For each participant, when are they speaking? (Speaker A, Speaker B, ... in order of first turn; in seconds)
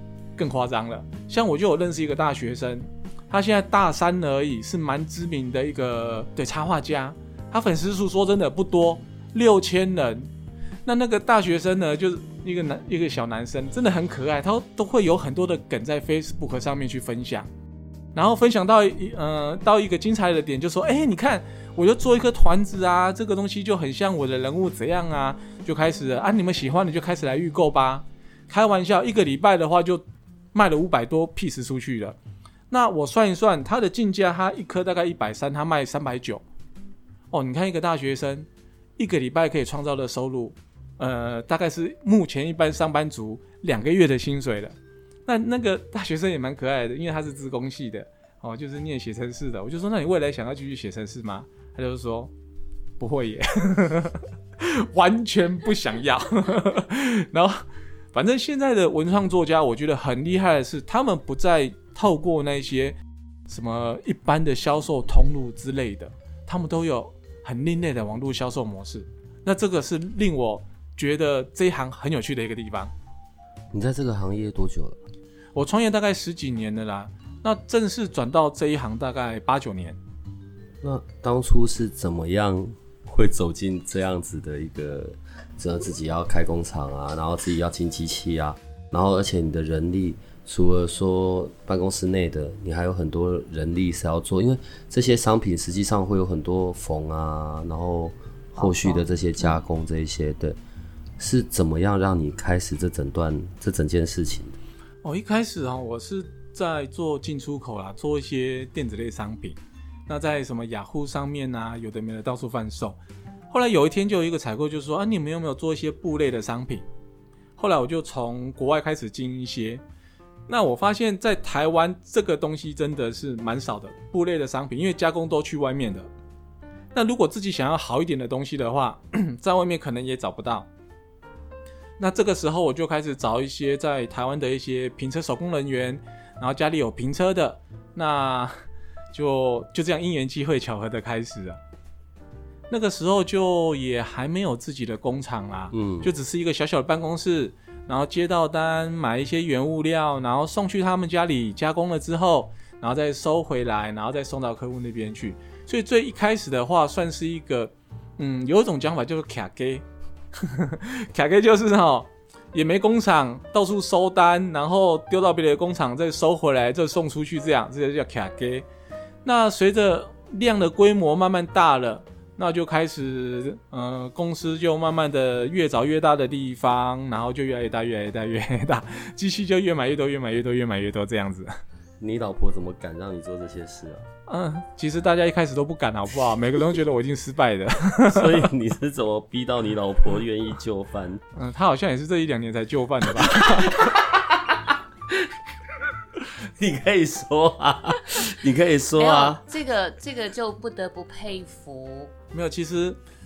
Speaker A: 0.4-10.3, 10.8-17.5, 18.1-32.2, 32.7-36.4, 37.3-38.5, 39.0-44.8, 45.3-52.3, 53.0-63.0, 63.5-72.9, 75.5-80.0, 105.0-113.0, 113.5-116.8, 117.6-119.8, 120.5-126.1, 126.9-130.7, 132.0-141.6, 142.7-159.8, 160.3-168.7, 169.2-181.5, 184.3-188.4, 191.3-193.8, 202.3-203.0
Speaker B: 73.7-75.0, 80.8-100.6, 101.2-104.6, 145.7-146.1, 182.0-184.1, 188.1-191.2, 193.3-193.9, 196.2-199.4
Speaker C: 98.6-99.6, 199.0-202.1